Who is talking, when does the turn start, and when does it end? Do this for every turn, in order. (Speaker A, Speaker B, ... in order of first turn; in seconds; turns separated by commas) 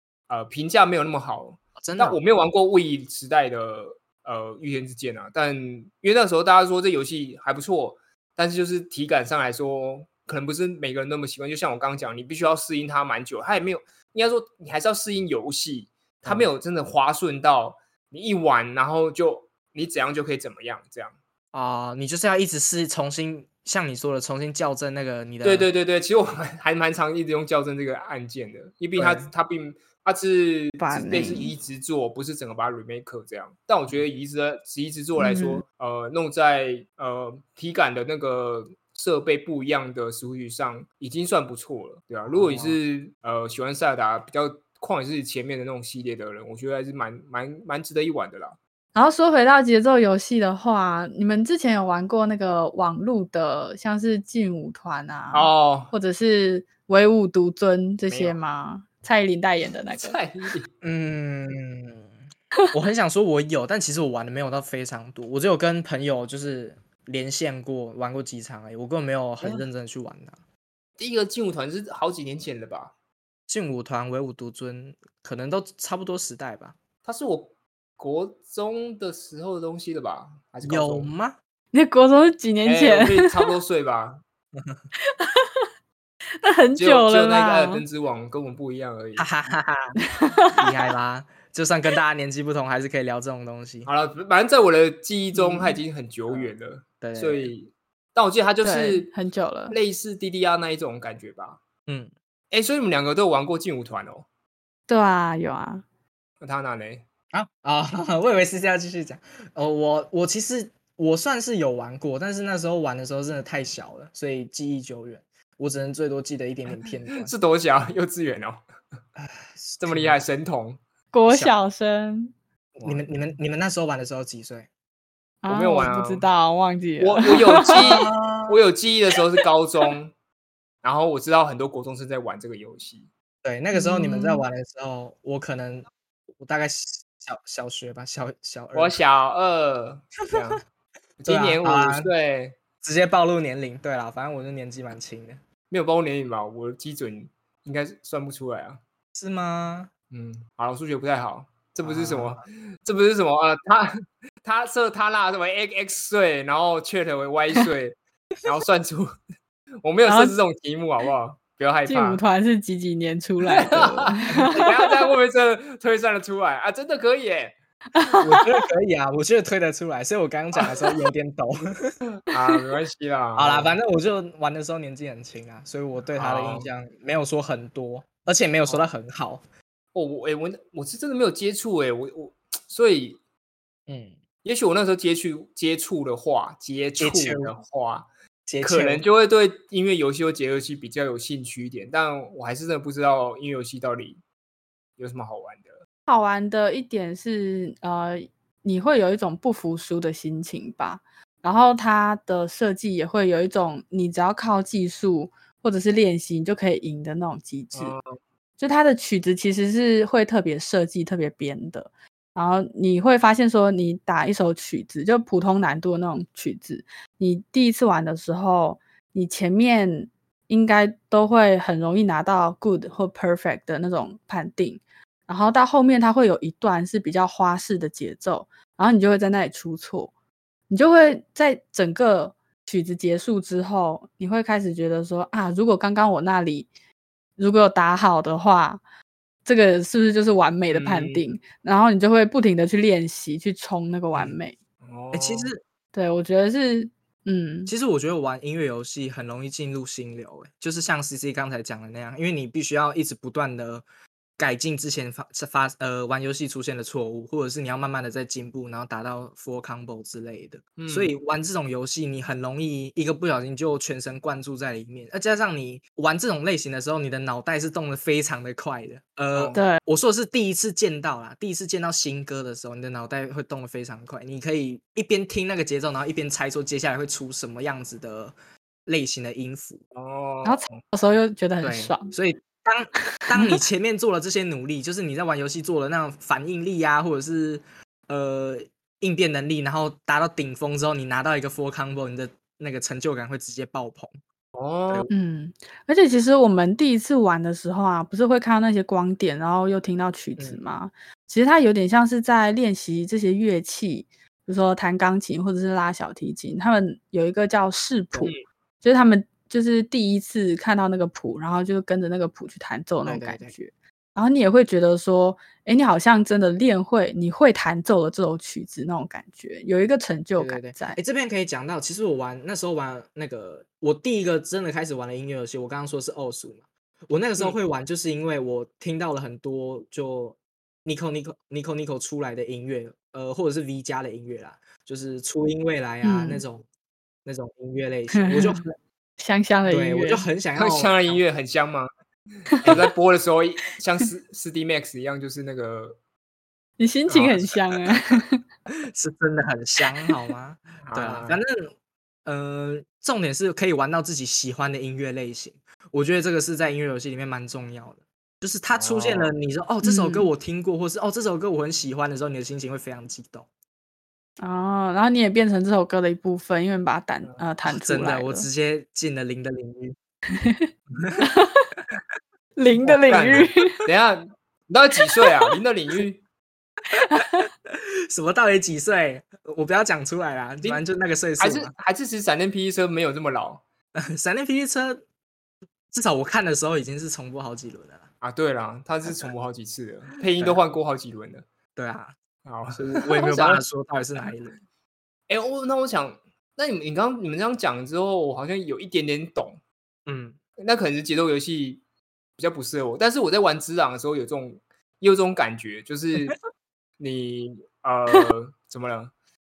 Speaker A: 0.3-21.1, Speaker B: 1.8-2.2, Speaker B: 21.5-25.7, Speaker A: 25.4-48.6, Speaker B: 28.9-29.3, Speaker C: 30.8-31.5, Speaker C: 35.2-35.6, Speaker B: 42.2-42.8, Speaker C: 48.9-60.2, Speaker A: 55.3-55.9, Speaker A: 58.1-58.4, Speaker A: 59.9-60.7, Speaker B: 60.8-62.1, Speaker B: 62.7-70.4, Speaker A: 71.0-72.9, Speaker B: 73.5-76.8, Speaker A: 77.0-81.1, Speaker B: 80.6-81.4, Speaker C: 81.7-83.5, Speaker A: 82.6-84.2, Speaker B: 84.5-84.8, Speaker C: 85.1-85.7, Speaker C: 86.4-87.8, Speaker A: 86.8-89.3, Speaker B: 89.2-90.0, Speaker C: 90.1-90.5, Speaker B: 90.5-93.9, Speaker A: 93.8-99.1, Speaker B: 96.3-97.5, Speaker C: 98.6-99.8, Speaker A: 99.7-101.6, Speaker B: 101.9-102.1, Speaker A: 102.5-104.2, Speaker C: 104.9-105.8, Speaker A: 106.4-107.0, Speaker B: 107.3-117.3, Speaker A: 117.1-118.6, Speaker B: 119.2-120.2, Speaker A: 119.8-120.8, Speaker C: 121.1-122.3, Speaker A: 122.8-123.0, Speaker B: 122.8-124.7, Speaker C: 125.4-127.8, Speaker A: 125.5-126.3, Speaker A: 127.0-130.1, Speaker B: 127.7-128.6, Speaker A: 130.8-133.1, Speaker B: 133.4-139.0, Speaker C: 133.7-134.4, Speaker A: 138.7-140.6, Speaker B: 140.3-140.5, Speaker A: 141.2-142.6, Speaker B: 141.2-142.1, Speaker B: 142.8-145.4, Speaker A: 145.7-148.8, Speaker B: 149.1-149.9, Speaker A: 150.1-159.1, Speaker B: 151.8-152.4, Speaker A: 159.8-162.2, Speaker C: 160.1-160.3, Speaker C: 161.9-164.9, Speaker A: 163.5-167.5, Speaker C: 167.9-168.4, Speaker B: 168.2-171.9, Speaker A: 172.2-173.8, Speaker B: 173.3-179.4, Speaker A: 176.2-176.7, Speaker A: 179.9-183.2, Speaker B: 183.9-184.2, Speaker A: 184.4-188.1, Speaker B: 187.0-187.5, Speaker B: 188.4-189.0, Speaker A: 188.6-194.2, Speaker A: 195.0-195.7, Speaker C: 196.1-207.9, Speaker A: 207.7-208.2, Speaker C: 208.6-230.1, Speaker C: 230.7-236.7, Speaker C: 237.4-238.8, Speaker C: 239.4-244.6, Speaker A: 240.7-241.2, Speaker A: 244.8-245.5, Speaker B: 245.1-245.6, Speaker C: 245.9-247.7, Speaker B: 247.7-253.8, Speaker B: 254.4-278.3, Speaker A: 260.8-261.1, Speaker A: 269.3-269.6, Speaker C: 269.5-269.8, Speaker B: 278.9-279.8, Speaker A: 279.9-280.8, Speaker C: 280.4-282.1, Speaker B: 281.6-294.1, Speaker C: 283.2-283.6, Speaker A: 294.5-295.1, Speaker C: 295.1-321.0, Speaker B: 313.0-313.5, Speaker B: 320.4-336.6, Speaker C: 336.0-336.4, Speaker B: 337.2-338.7, Speaker C: 338.1-338.6, Speaker C: 339.2-340.2, Speaker B: 339.6-341.2, Speaker A: 340.6-341.9, Speaker C: 342.5-342.8, Speaker A: 342.6-346.0, Speaker C: 346.8-348.4, Speaker A: 347.1-347.6, Speaker B: 348.9-351.7, Speaker A: 350.8-351.4, Speaker B: 352.2-363.5, Speaker A: 358.7-359.3, Speaker C: 359.8-360.3, Speaker C: 364.4-368.5, Speaker B: 367.7-369.9, Speaker C: 370.3-371.7, Speaker C: 372.6-373.8, Speaker B: 372.8-373.5, Speaker A: 373.1-376.2, Speaker C: 376.9-377.4, Speaker B: 377.6-381.7, Speaker A: 381.4-383.6, Speaker B: 383.9-385.0, Speaker B: 385.9-388.1, Speaker A: 388.2-391.4, Speaker B: 389.1-389.3, Speaker B: 391.8-392.1, Speaker A: 392.4-393.6, Speaker B: 392.7-394.6, Speaker A: 395.3-399.6, Speaker B: 400.1-400.4, Speaker A: 400.6-401.8, Speaker A: 402.4-406.4, Speaker A: 407.0-409.1